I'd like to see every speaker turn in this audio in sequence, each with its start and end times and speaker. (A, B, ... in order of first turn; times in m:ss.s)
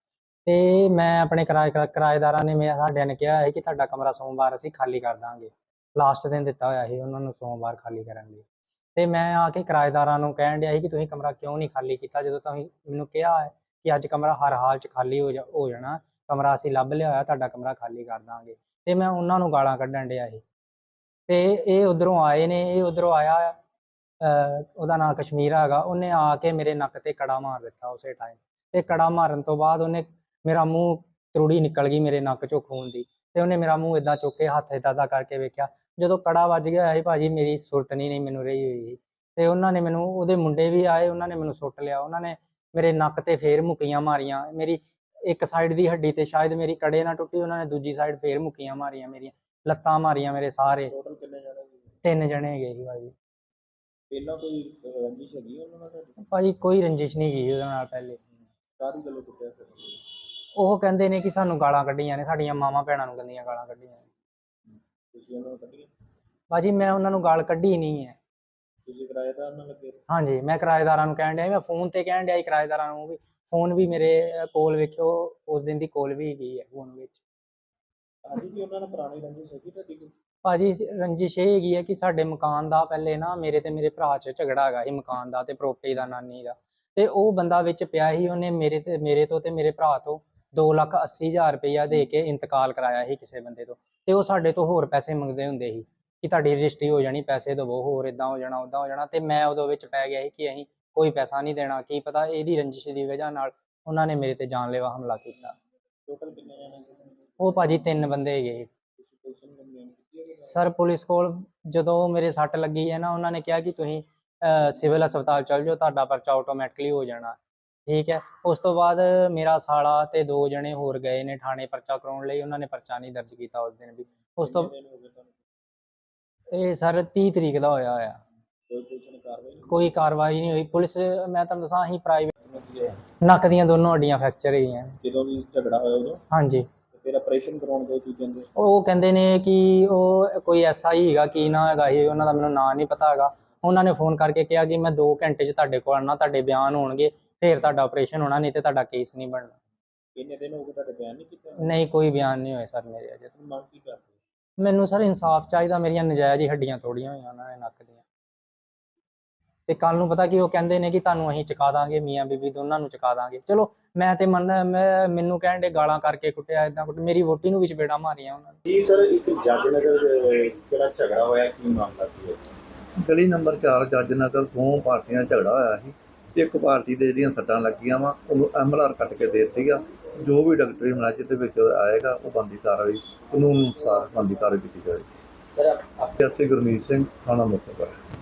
0:00.5-0:20.4 A
0:21.3-0:23.6 A
0:24.2-0:50.9 A
0:50.9-0:51.8 B
0:52.0-0:53.1 A
0:54.1-0:56.2 B
0:56.2-0:58.2 A
0:58.8-1:00.0 B
1:00.6-1:04.0 A
1:05.1-1:05.9 B
1:06.5-1:08.2 A
1:08.9-1:10.0 B
1:10.1-1:17.2 A
1:18.2-1:20.1 B
1:20.4-1:45.6 A
1:46.1-1:47.6 B
1:47.4-1:48.7 A
1:49.0-1:50.6 B
1:50.5-2:04.7 A
2:04.4-2:05.3 B
2:06.5-2:08.2 A
2:08.7-2:09.9 B
2:09.6-2:12.3 A
2:12.4-2:13.0 B
2:13.2-2:15.0 A
2:15.0-2:16.2 B
2:16.3-2:16.7 A
2:16.9-2:18.5 B
2:18.6-2:29.5 A
2:30.2-2:31.8 B
2:31.6-2:33.3 A
2:33.3-2:34.1 B
2:34.6-2:38.0 A
2:39.7-2:48.6 A
2:48.7-2:52.4 B
2:53.0-3:05.1 C
3:06.2-3:08.0 C